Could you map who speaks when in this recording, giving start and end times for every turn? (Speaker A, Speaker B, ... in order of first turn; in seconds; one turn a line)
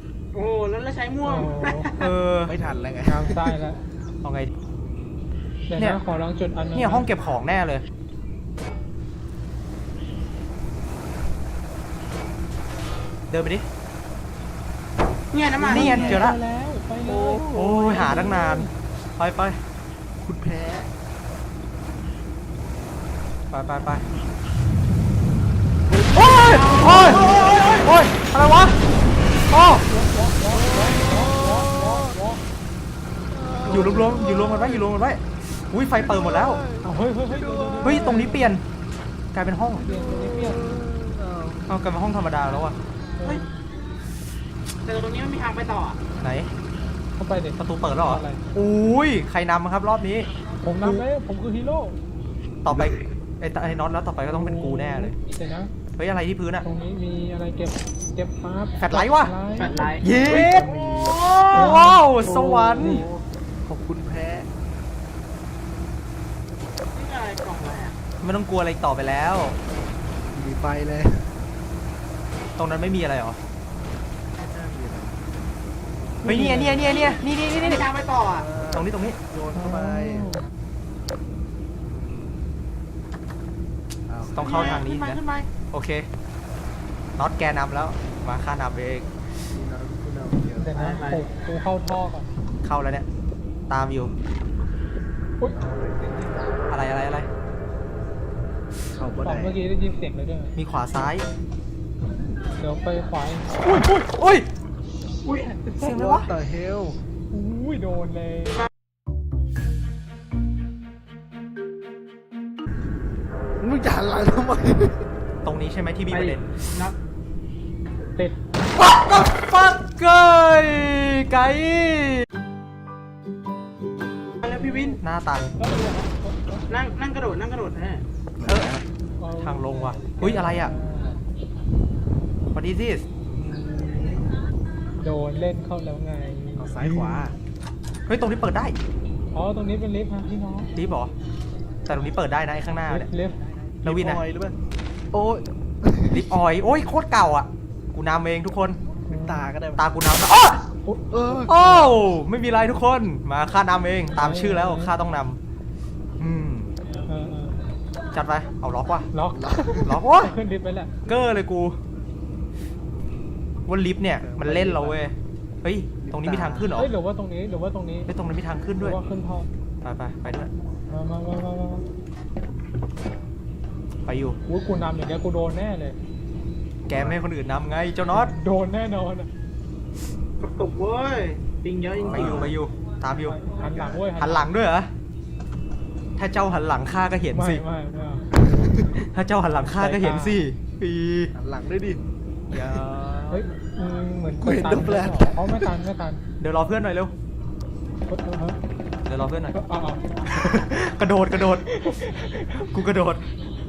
Speaker A: 0.3-2.1
Speaker B: 1.2-1.9
Speaker C: 2.0-2.6
Speaker D: 2.5-3.6
Speaker B: 3.1-3.8
Speaker C: 4.2-4.5
Speaker B: 5.7-7.1
Speaker C: 6.8-7.8
Speaker C: 13.3-13.7
Speaker A: 15.3-16.0
Speaker D: 15.6-16.3
Speaker C: 15.7-16.4
Speaker B: 15.7-18.7
Speaker D: 17.0-18.2
Speaker C: 17.5-19.6
Speaker D: 20.2-20.9
Speaker C: 23.5-24.1
Speaker C: 26.1-28.8
Speaker A: 26.2-27.9
Speaker D: 26.8-27.8
Speaker C: 29.5-29.9
Speaker B: 29.9-32.4
Speaker D: 30.5-32.2
Speaker D: 33.3-34.9
Speaker C: 33.7-36.6
Speaker D: 36.0-38.3
Speaker B: 36.8-38.5
Speaker C: 37.8-38.6
Speaker C: 39.3-39.9
Speaker B: 39.8-40.7
Speaker D: 39.8-41.7
Speaker C: 41.7-42.8
Speaker B: 43.2-43.6
Speaker A: 44.9-46.0
Speaker C: 46.2-46.5
Speaker B: 47.2-48.4
Speaker C: 47.6-50.3
Speaker B: 50.6-52.0
Speaker D: 50.8-51.1
Speaker C: 52.6-55.2
Speaker B: 54.2-55.7
Speaker C: 56.0-56.7
Speaker B: 56.6-60.5
Speaker C: 58.8-59.3
Speaker A: 59.6-62.0
Speaker D: 59.8-61.3
Speaker C: 60.0-60.8
Speaker C: 61.5-63.1
Speaker B: 61.5-63.1
Speaker D: 62.8-64.5
Speaker A: 66.9-68.0
Speaker C: 68.2-69.6
Speaker D: 70.2-71.4
Speaker C: 72.6-73.4
Speaker D: 74.3-75.5
Speaker B: 76.2-77.0
Speaker C: 76.2-77.9
Speaker A: 76.8-78.5
Speaker D: 78.3-80.3
Speaker C: 78.7-79.2
Speaker B: 79.5-80.5
Speaker D: 84.1-84.8
Speaker C: 84.3-85.2
Speaker A: 84.4-85.5
Speaker C: 85.7-86.1
Speaker C: 87.2-89.1
Speaker D: 89.5-90.8
Speaker B: 90.6-92.3
Speaker A: 90.8-91.2
Speaker C: 92.6-93.1
Speaker C: 93.7-94.2
Speaker D: 95.5-96.5
Speaker C: 96.7-97.3
Speaker D: 98.9-99.6
Speaker B: 99.2-100.5
Speaker C: 100.6-101.3
Speaker B: 102.5-103.6
Speaker C: 103.6-104.5
Speaker A: 105.2-106.3
Speaker C: 105.8-106.3
Speaker D: 106.1-107.0
Speaker B: 107.3-108.7
Speaker D: 113.6-115.1
Speaker C: 115.4-116.9
Speaker A: 116.1-117.0
Speaker C: 118.7-122.3
Speaker A: 124.4-124.9
Speaker B: 124.4-125.0
Speaker C: 125.0-125.5
Speaker B: 125.6-127.0
Speaker A: 126.7-128.0
Speaker D: 128.4-128.8
Speaker C: 128.5-128.7
Speaker B: 129.2-131.2
Speaker C: 129.4-130.7
Speaker C: 132.5-133.1
Speaker D: 133.3-134.3
Speaker B: 135.0-137.3
Speaker D: 136.6-137.3
Speaker C: 138.1-138.8
Speaker B: 139.3-140.7
Speaker C: 140.7-141.1
Speaker C: 141.9-143.1
Speaker B: 142.9-143.4
Speaker C: 143.8-144.2
Speaker D: 143.8-144.6
Speaker D: 145.1-146.4
Speaker C: 146.1-148.8
Speaker B: 149.1-149.5
Speaker D: 149.1-149.8
Speaker C: 149.8-150.7
Speaker B: 150.8-151.9
Speaker D: 151.1-151.9
Speaker C: 151.5-155.4
Speaker B: 154.1-154.9
Speaker C: 156.2-156.7
Speaker B: 157.1-157.6
Speaker C: 158.1-159.1
Speaker B: 159.1-161.0
Speaker D: 159.3-159.9
Speaker C: 159.8-160.3
Speaker C: 161.1-161.8
Speaker C: 163.7-166.9
Speaker D: 164.2-165.0
Speaker D: 166.0-166.7
Speaker B: 166.8-168.1
Speaker C: 168.1-169.0
Speaker B: 168.8-169.5
Speaker C: 169.8-170.5
Speaker B: 170.9-171.9
Speaker C: 174.1-174.4
Speaker B: 174.5-176.0
Speaker C: 176.8-178.3
Speaker D: 176.9-177.2
Speaker B: 178.1-179.3
Speaker A: 180.4-182.6
Speaker D: 182.0-182.5
Speaker C: 182.1-183.4
Speaker B: 183.3-184.5
Speaker D: 183.6-184.0
Speaker C: 184.1-184.9
Speaker C: 186.2-187.6
Speaker B: 187.3-188.9
Speaker D: 188.3-188.9
Speaker C: 189.1-191.3
Speaker B: 189.6-190.4
Speaker D: 191.3-192.0
Speaker C: 192.5-193.4
Speaker B: 193.3-196.2
Speaker D: 194.4-195.6
Speaker C: 196.4-197.1
Speaker B: 198.1-198.6
Speaker C: 199.1-199.6
Speaker B: 199.5-200.1
Speaker C: 200.2-201.7
Speaker B: 201.6-202.7
Speaker C: 202.6-203.2